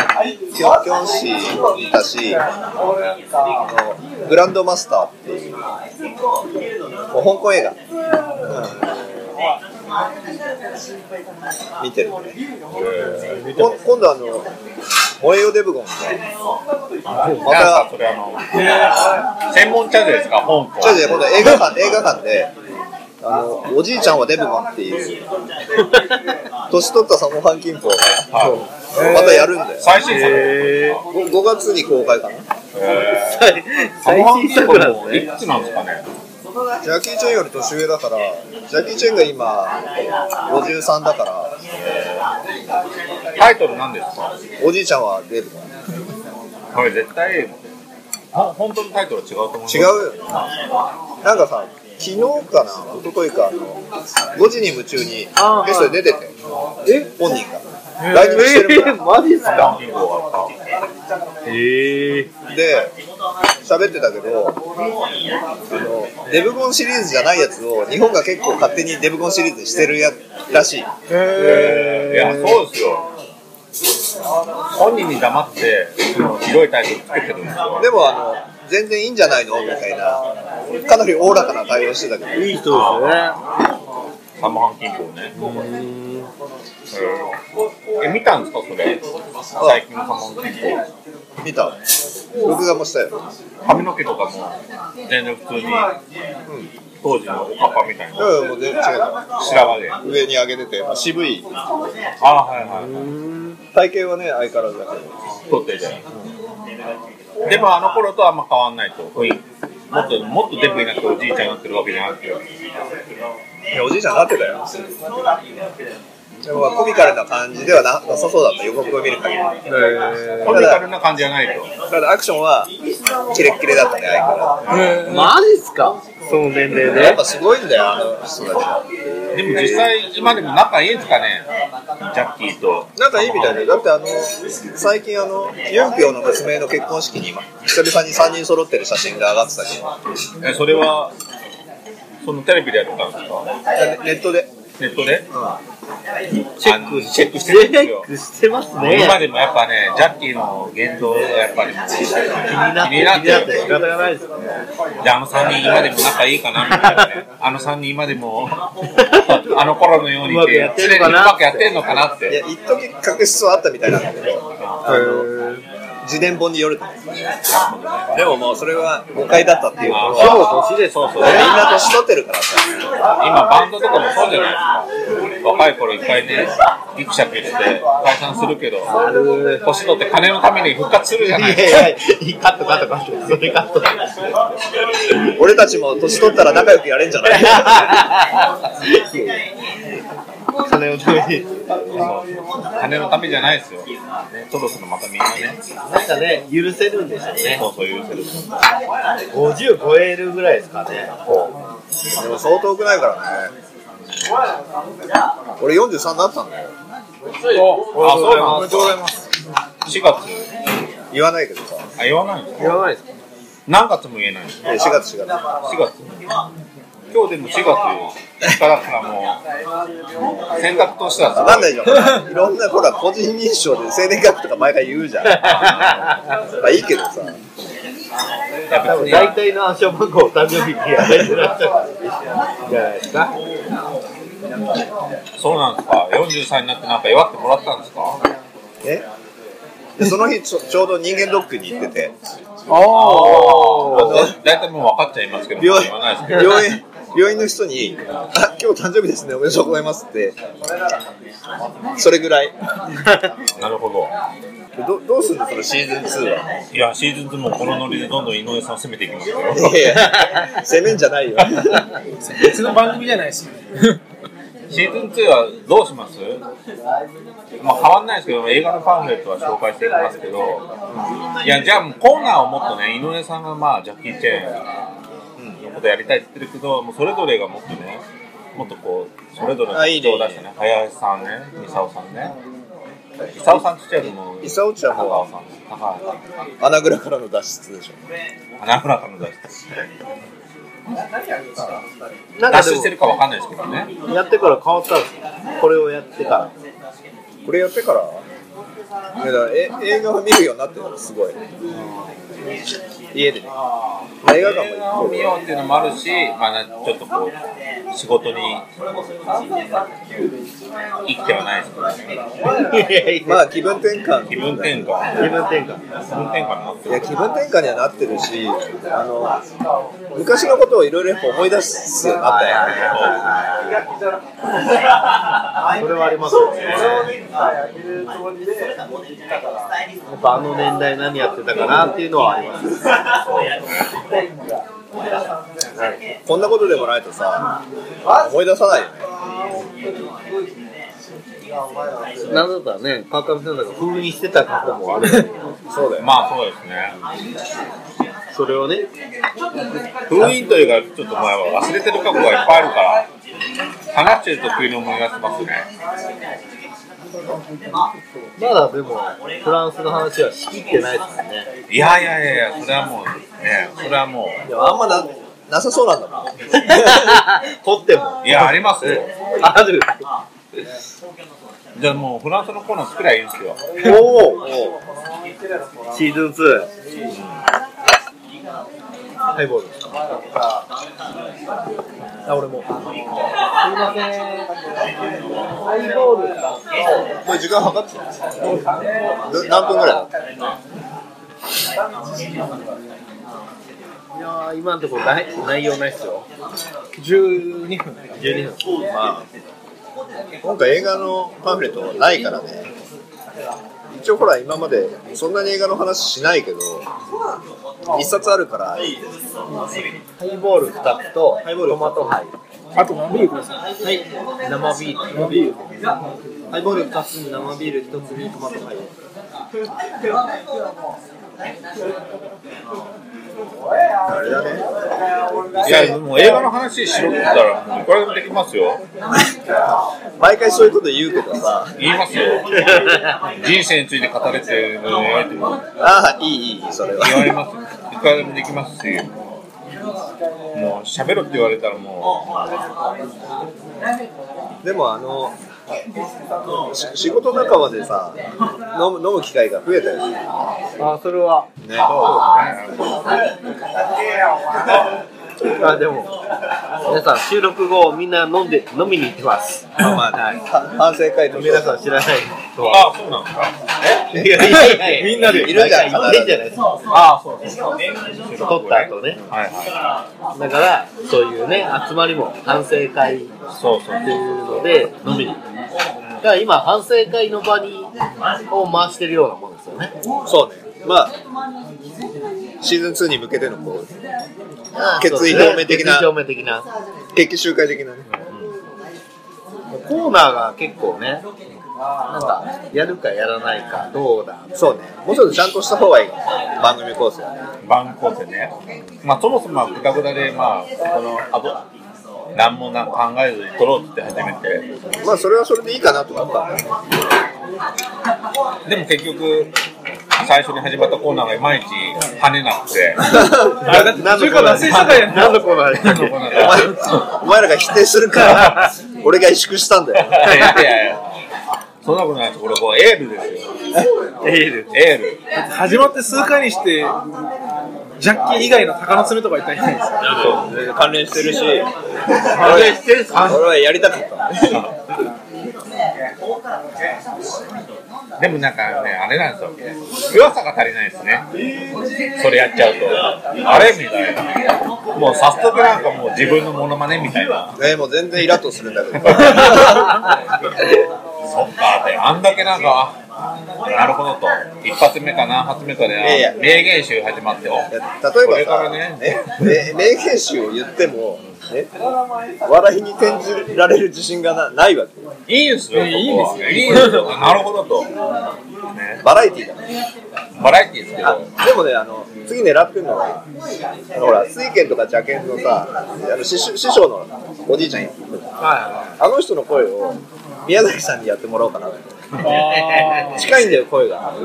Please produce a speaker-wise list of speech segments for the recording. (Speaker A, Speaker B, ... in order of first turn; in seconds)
Speaker A: 0.5-2.4, 3.6-5.7, 7.1-7.8, 8.4-8.8, 11.8-12.4, 13.5-14.5, 15.2-16.2, 17.4-17.9, 20.8-22.5, 23.2-25.2, 26.7-29.9, 31.1-32.5, 36.8-39.8, 40.5-41.5, 44.6-45.7, 49.7-50.2, 51.2-53.8, 54.4-56.4, 56.9-59.0, 62.5-62.9, 63.6-64.6, 65.7-70.9, 77.8-80.2, 80.8-82.4, 91.4-91.8, 92.4-93.1, 98.2-101.5, 103.7-105.1, 113.7-114.7, 116.4-119.5, 120.5-120.8, 121.9-122.7, 123.3-124.6, 126.8-128.8, 133.0-139.9, 143.8-144.5, 145.3-145.6, 162.3-165.3, 166.0-167.0, 168.1-170.5, 171.2-172.8, 185.2-188.0, 202.2-203.5, 205.6-206.7, 211.1-211.8, 214.6-215.4, 221.3-225.7, 226.6-227.4, 240.0-242.2, 243.9-244.3, 245.6-250.3, 252.0-252.5, 254.8-256.4, 259.5-261.8, 270.9-271.2, 279.7-280.4, 284.4-285.3, 286.6-288.0, 297.4-298.2, 299.2-301.4, 303.1-303.5, 304.2-305.3, 313.2-314.9, 316.9-319.4, 320.1-323.0, 336.3-337.5, 338.1-339.1, 345.7-346.1, 364.4-367.2, 373.8-374.8, 382.3-382.7, 387.2-388.1, 389.3-390.1, 398.9-399.3, 400.4-402.7, 403.9-406.9, 407.9-409.0, 411.4-412.1, 424.1-424.6, 425.6-426.0, 430.2-431.7, 435.8-437.3, 444.6-445.3, 446.7-448.2, 448.7-450.2, 451.6-452.1, 459.8-461.8, 464.1-466.4, 480.3-481.1, 482.6-483.9, 485.0-486.1, 487.1-488.1, 494.6-497.3, 505.0-506.7, 513.0-513.9, 516.3-520.4, 530.0-531.7, 532.3-534.6, 547.6-550.0, 556.0-556.4, 557.7-561.7, 562.4-565.1, 569.0-569.6, 571.0-573.2, 573.9-582.5, 583.0-584.1
Speaker B: 12.7-13.7, 17.1-18.7, 19.5-21.1, 28.3-28.6, 29.8-31.0, 32.8-36.0, 41.7-42.2, 43.4-44.3, 46.7-47.6, 48.3-50.1, 59.4-60.5, 71.3-73.0, 74.7-77.9, 82.7-83.3, 84.4-85.4, 86.9-87.3, 88.0-89.0, 89.6-90.8, 93.7-95.9, 97.0-98.4, 99.4-100.0, 102.2-103.1, 105.5-106.0, 107.4-112.4, 120.4-121.7, 124.7-125.3, 129.3-131.4, 132.1-133.7, 140.4-141.1, 142.2-143.5, 144.8-145.2, 146.6-148.1, 148.8-153.7, 155.0-162.4, 164.6-164.9, 167.4-168.3, 169.9-171.6, 173.2-174.9, 175.4-179.0, 179.6-181.9, 191.9-195.6, 197.6-198.5, 201.3-201.6, 207.9-209.0, 209.8-210.5, 212.0-212.8, 213.7-214.6, 215.7-216.2, 217.1-219.4, 220.6-222.1, 225.6-226.1, 228.7-229.4, 235.4-238.2, 242.8-246.8, 253.6-254.1, 256.7-259.9, 264.7-266.4, 267.6-270.6, 271.4-274.6, 275.6-282.3, 283.3-286.2, 288.6-289.6, 292.5-293.9, 304.3-307.3, 307.9-308.6, 311.1-312.1, 314.3-315.3, 316.1-317.1, 322.8-323.2, 326.6-327.2, 333.3-333.9, 346.0-346.9, 350.1-353.1, 353.9-355.7, 361.7-364.4, 368.2-369.1, 371.8-373.6, 425.6-428.8, 431.8-432.6, 433.4-435.6, 437.0-439.1, 440.5-442.6, 451.8-453.0, 462.6-463.6, 466.9-469.8, 473.5-474.6, 497.6-501.6, 502.3-504.7, 508.7-509.5, 510.2-513.2, 515.7-517.0, 518.3-518.5, 520.0-521.0, 521.8-523.5, 524.7-525.2, 538.2-539.5, 540.1-541.3, 542.1-547.6, 549.0-550.1, 551.3-553.0, 553.7-557.7, 558.2-559.2, 565.3-567.9, 568.7-569.0, 570.4-571.3
Speaker C: 25.8-26.1, 28.9-29.5, 30.0-31.0, 33.0-35.2, 55.4-56.0, 58.0-59.8, 61.4-62.3, 71.1-72.6, 82.3-83.4, 85.3-86.3, 102.7-103.6, 119.7-120.7, 125.0-127.2, 129.2-129.9, 146.6-149.2, 152.5-154.3, 159.0-159.3, 160.2-161.7, 164.9-165.6, 169.8-171.5, 178.9-179.6, 181.3-183.9, 187.3-189.4, 190.6-192.0, 195.9-197.6, 199.3-201.2, 208.0-208.9, 212.6-213.1, 225.3-226.2, 228.8-232.1, 232.7-233.3, 242.8-244.2, 260.0-260.5, 292.4-292.9, 294.1-296.5, 312.6-313.4, 315.2-315.8, 322.2-323.8, 325.7-327.1, 330.1-332.8, 342.3-345.3, 348.3-348.9, 358.4-361.5, 366.6-369.9, 373.8-374.4, 375.9-376.7, 379.3-379.8, 383.6-384.5, 385.6-386.5, 394.1-396.2, 398.2-398.6, 410.2-412.3, 413.8-415.7, 416.5-418.9, 432.7-433.1, 450.8-452.3, 455.5-456.1, 456.8-460.4, 461.3-462.9, 464.1-466.7, 468.4-469.2, 470.4-473.3, 474.0-475.4, 476.2-477.9, 478.5-479.9, 484.8-486.7, 489.7-491.2, 492.1-494.5, 513.6-516.2, 520.2-520.6, 524.2-524.7, 532.3-533.4, 578.4-578.9, 582.3-583.1
Speaker D: 124.7-125.3, 207.5-209.2, 242.7-243.9, 262.3-264.0, 396.9-398.1, 412.8-413.6, 464.4-465.6, 513.6-515.5, 525.4-526.9, 528.0-530.1, 565.7-567.2, 582.2-583.3